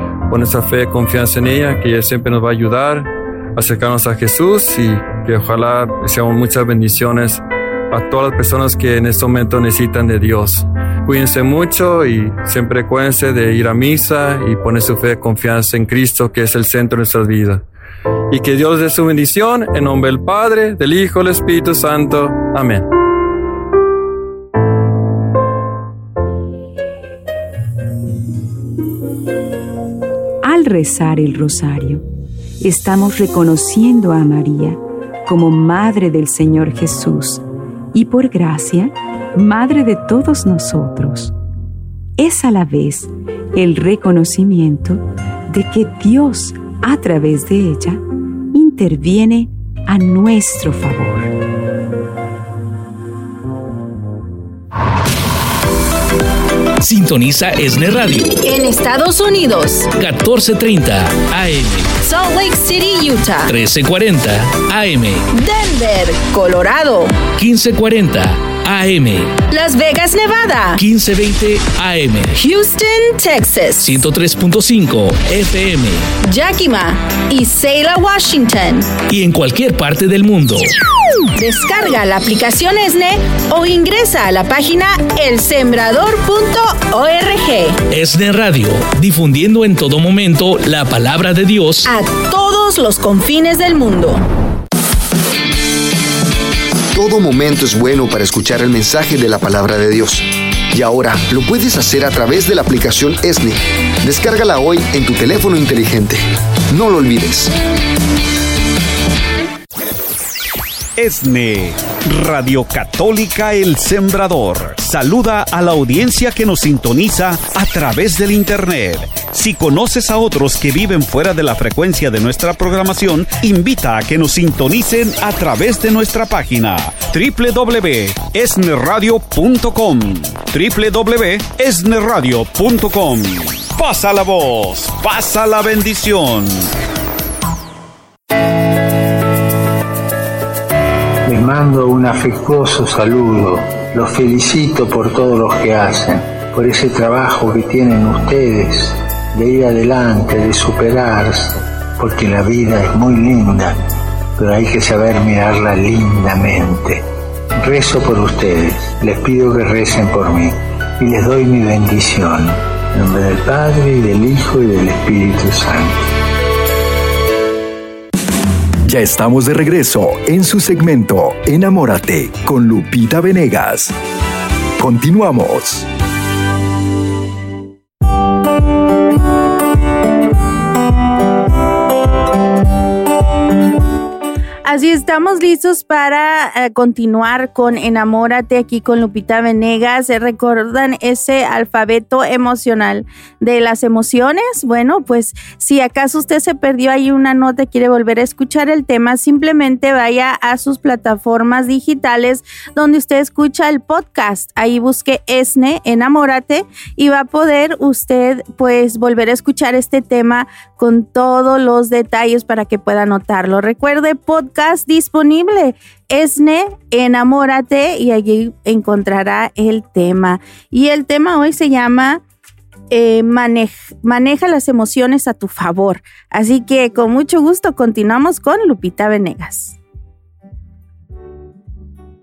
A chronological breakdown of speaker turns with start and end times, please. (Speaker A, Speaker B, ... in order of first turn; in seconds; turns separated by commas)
Speaker A: 0.3-17.6, Speaker A: 18.3-22.9, Speaker B: 30.4-32.0, Speaker B: 32.6-41.3, Speaker B: 42.2-51.3, Speaker C: 56.8-58.4, Speaker D: 58.4-59.9, Speaker C: 59.9-61.9, Speaker D: 62.0-63.5, Speaker C: 63.5-65.2, Speaker D: 65.3-67.3, Speaker C: 67.3-69.4, Speaker D: 69.5-70.8, Speaker C: 70.8-72.3, Speaker D: 72.3-74.0, Speaker C: 73.8-76.1, Speaker D: 76.2-79.0, Speaker C: 79.0-80.7, Speaker D: 81.3-87.8, Speaker C: 87.9-91.9, Speaker D: 91.8-94.2, Speaker E: 96.9-107.5, Speaker F: 111.0-136.7, Speaker G: 141.2-153.8, Speaker G: 154.4-157.0, Speaker G: 157.6-166.0, Speaker H: 168.8-173.9, Speaker H: 174.8-175.9, Speaker I: 184.6-222.2, Speaker I: 222.9-229.8